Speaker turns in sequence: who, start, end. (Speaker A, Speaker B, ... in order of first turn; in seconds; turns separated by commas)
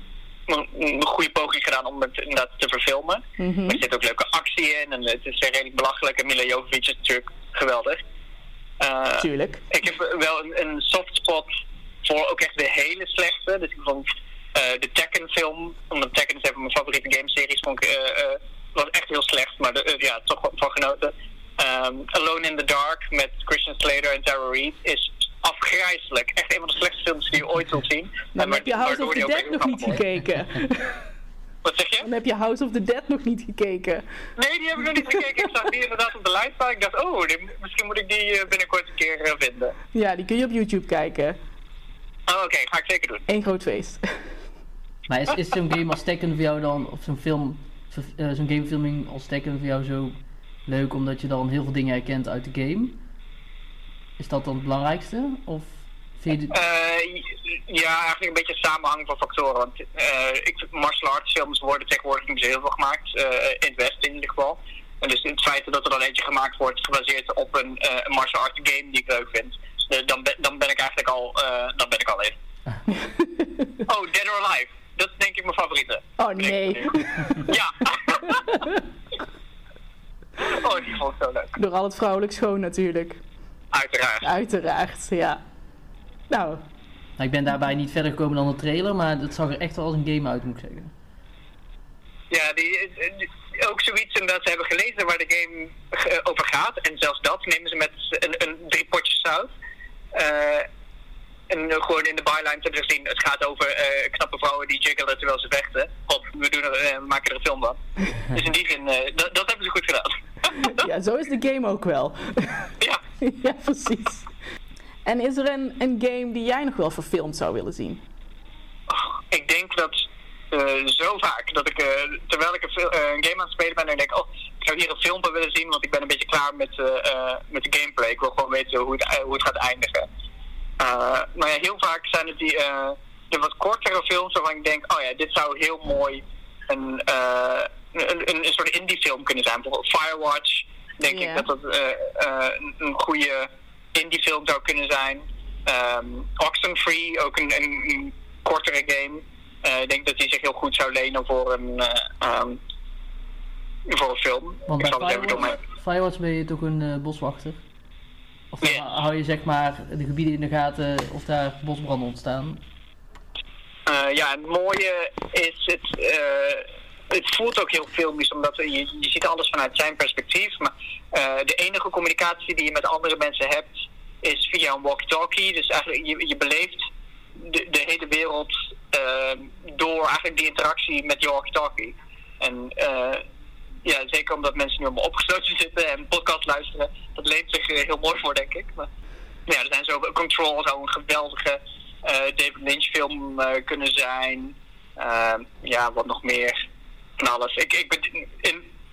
Speaker A: 0.5-8.0, Speaker B: 3.4-3.8, Speaker A: 8.8-11.5, Speaker B: 9.2-9.6, Speaker A: 12.0-30.0, Speaker B: 28.4-31.0, Speaker A: 31.6-32.1, Speaker B: 32.0-34.0, Speaker A: 34.4-39.8, Speaker B: 39.9-41.4, Speaker A: 42.3-43.2, Speaker B: 43.3-44.0, Speaker C: 45.1-53.0, Speaker C: 54.2-56.5, Speaker A: 56.5-72.3, Speaker B: 72.9-73.8, Speaker A: 73.9-78.7, Speaker B: 76.2-77.6, Speaker B: 78.2-78.8, Speaker A: 80.4-81.6, Speaker B: 81.6-83.2, Speaker A: 83.7-84.2, Speaker B: 84.2-85.4, Speaker B: 86.3-86.6, Speaker C: 87.2-90.9, Speaker A: 92.3-99.5, Speaker A: 100.1-100.7, Speaker A: 101.5-110.8, Speaker B: 110.5-114.3, Speaker B: 115.0-118.0, Speaker A: 118.9-130.1, Speaker A: 130.8-152.6, Speaker B: 141.1-141.5, Speaker A: 153.9-155.6, Speaker C: 154.7-157.6, Speaker C: 158.5-162.6, Speaker A: 163.9-176.8, Speaker A: 177.4-183.2, Speaker A: 183.8-188.9, Speaker A: 189.5-196.6, Speaker A: 197.2-198.6